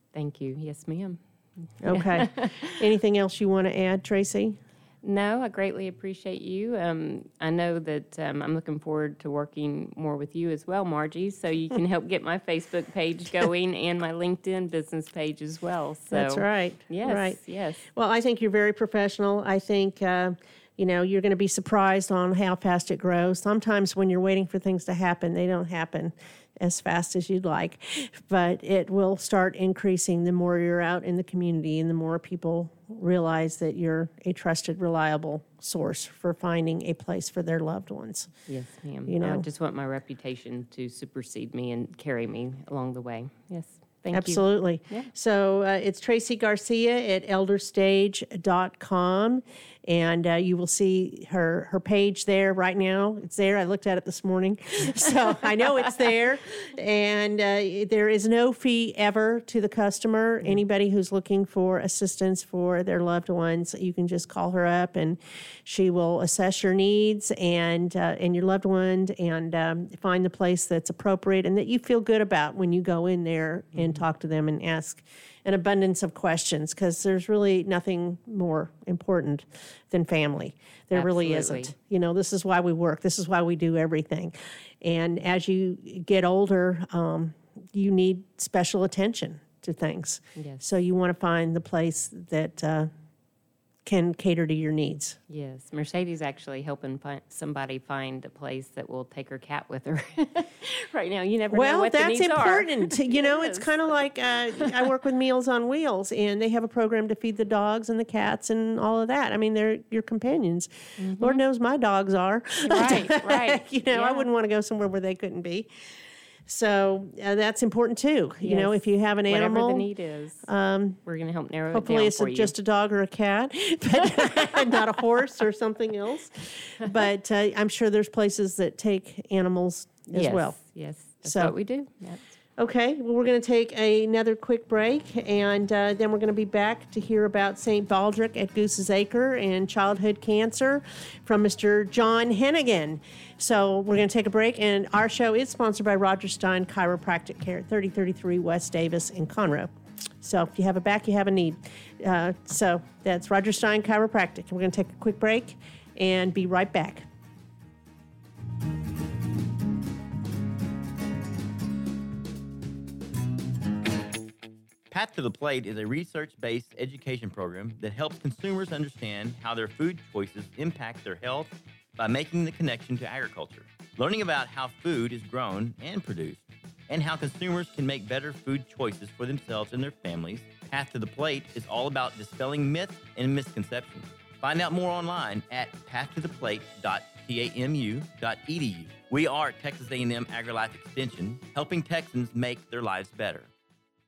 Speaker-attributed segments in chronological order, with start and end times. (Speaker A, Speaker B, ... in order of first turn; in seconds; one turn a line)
Speaker A: 0.1-1.2
Speaker B: 1.8-4.6
Speaker A: 1.9-2.8
Speaker A: 5.0-17.9
Speaker B: 16.1-17.4
Speaker B: 17.9-38.3
Speaker A: 38.5-45.1
Speaker B: 39.1-39.5
Speaker B: 44.1-92.9
Speaker A: 73.7-74.0
Speaker A: 80.9-81.7
Speaker A: 90.4-90.6
Speaker B: 93.8-95.2
Speaker A: 95.3-104.0
Speaker B: 101.5-115.7
Speaker A: 111.0-111.4
Speaker A: 112.6-114.3
Speaker B: 116.5-119.9
Speaker A: 118.4-120.5
Speaker B: 120.4-121.0
Speaker A: 121.0-122.5
Speaker B: 121.7-130.6
Speaker A: 130.1-132.3
Speaker B: 131.2-131.6
Speaker B: 132.6-157.1
Speaker C: 164.9-193.5